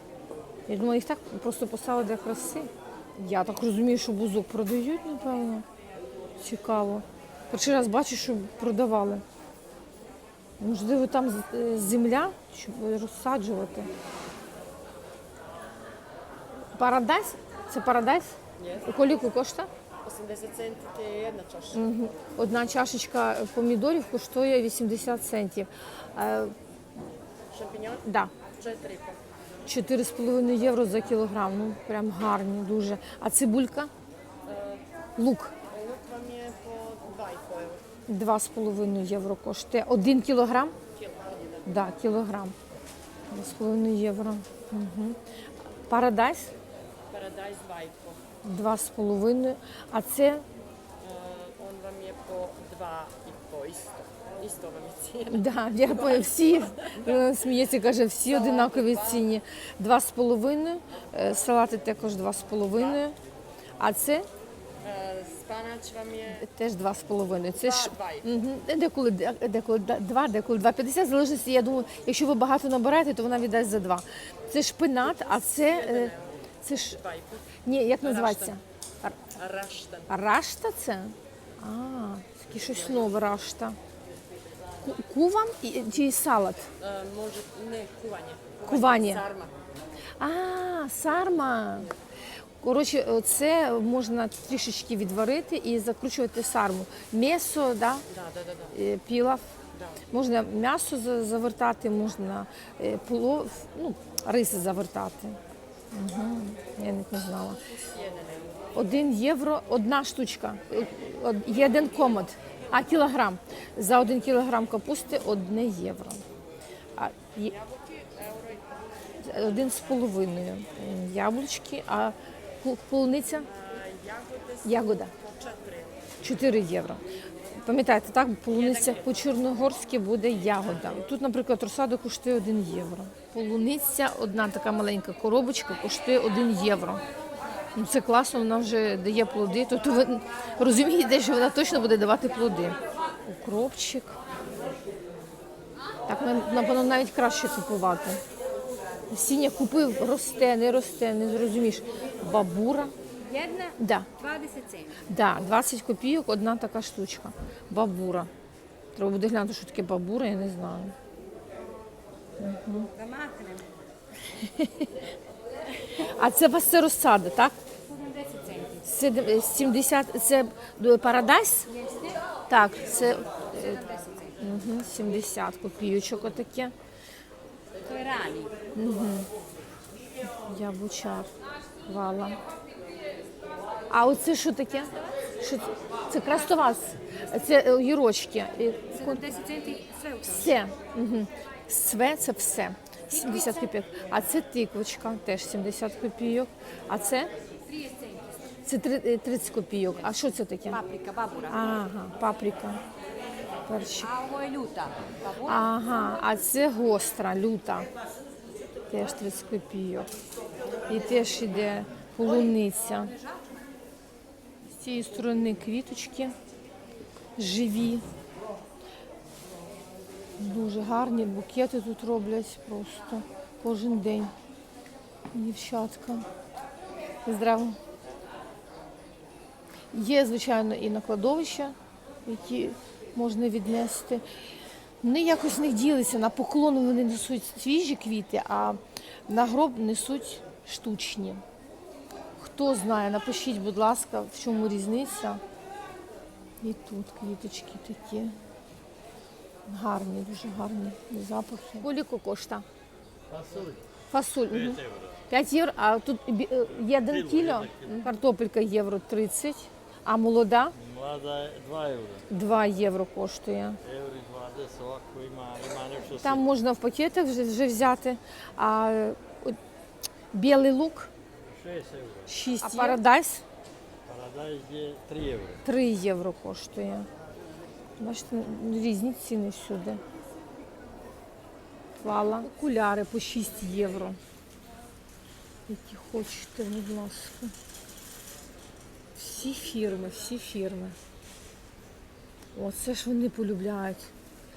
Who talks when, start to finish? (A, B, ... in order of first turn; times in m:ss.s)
0:00.7-0:05.7 A
0:06.4-0:09.2 A
0:10.6-0:13.9 A
0:16.8-0:19.7 A
0:20.0-0:21.8 B
0:21.7-0:26.5 A
0:27.5-0:28.0 B
0:28.0-0:28.3 A
0:28.6-0:29.2 B
0:29.6-0:33.9 A
0:34.5-0:34.8 B
0:35.2-0:35.6 A
0:35.7-0:37.8 B
0:38.1-0:40.8 A
0:41.0-0:41.6 B
0:41.6-0:42.6 A
0:43.3-0:45.2 A
0:45.9-0:46.5 A
0:47.1-0:48.2 B
0:48.4-0:50.5 A
0:51.0-0:55.5 B
0:55.2-1:03.2 A
0:58.6-0:58.9 B
1:03.8-1:04.3 A
1:04.8-1:06.3 B
1:06.2-1:17.0 A
1:07.7-1:08.2 B
1:15.9-1:16.2 B
1:17.6-1:19.3 A
1:19.4-1:20.1 B
1:20.1-1:23.8 A
1:24.8-1:26.7 A
1:26.8-1:29.6 B
1:28.6-1:29.3 A
1:30.2-1:31.9 A
1:32.6-1:38.1 A
1:38.2-1:38.6 B
1:38.7-1:39.5 A
1:40.1-1:45.4 A
1:45.9-1:47.6 A
1:47.9-1:48.6 B
1:48.8-1:56.2 A
1:57.0-1:57.6 A
1:57.9-1:58.6 B
1:59.2-2:03.5 A
2:03.5-2:06.0 B
2:04.6-2:05.1 A
2:06.2-2:07.0 A
2:07.6-2:17.0 A
2:17.8-2:24.2 A
2:26.1-2:28.2 A
2:29.1-2:33.0 A
2:33.3-2:35.0 C
2:33.8-2:34.2 A
2:35.0-2:38.3 A
2:39.0-2:41.0 A
2:42.4-2:42.9 A
2:43.0-2:43.7 C
2:44.2-2:45.1 A
2:46.0-2:47.6 A
2:47.9-2:48.8 C
2:48.8-2:51.8 A
2:52.5-2:56.7 A
2:53.9-2:54.3 C
2:57.8-2:58.5 C
2:58.8-2:59.3 A
3:00.2-3:01.3 A
3:01.8-3:02.4 A
3:03.9-3:09.5 A
3:09.2-3:10.3 C
3:10.2-3:17.3 A
3:17.8-3:18.2 C
3:18.6-3:20.9 A
3:20.8-3:21.5 C
3:21.5-3:22.8 A
3:23.7-3:24.3 A
3:24.2-3:25.0 C
3:25.3-3:27.9 A
3:28.9-3:30.1 A
3:30.9-3:33.2 A
3:34.7-3:36.4 A
3:37.4-3:38.1 A
3:40.4-3:44.3 A
3:45.3-3:46.3 A
3:47.2-3:47.8 A
3:49.9-3:54.2 A
3:55.0-4:01.4 A
4:02.4-4:05.4 A
4:06.6-4:08.4 A
4:09.7-4:12.7 A
4:13.3-4:13.8 D
4:14.1-4:20.8 A
4:14.5-4:15.2 D
4:16.9-4:18.1 D
4:20.8-4:22.3 D
4:22.3-4:23.8 A
4:23.8-4:26.4 D
4:26.1-4:29.6 A
4:30.3-4:31.1 A
4:31.5-4:32.3 D
4:32.3-4:33.4 A
4:34.1-4:35.6 D
4:35.6-4:37.1 A
4:38.0-4:40.0 A
4:42.0-4:44.2 A
4:45.7-4:47.6 A
4:49.2-4:51.0 A
4:52.5-4:54.1 A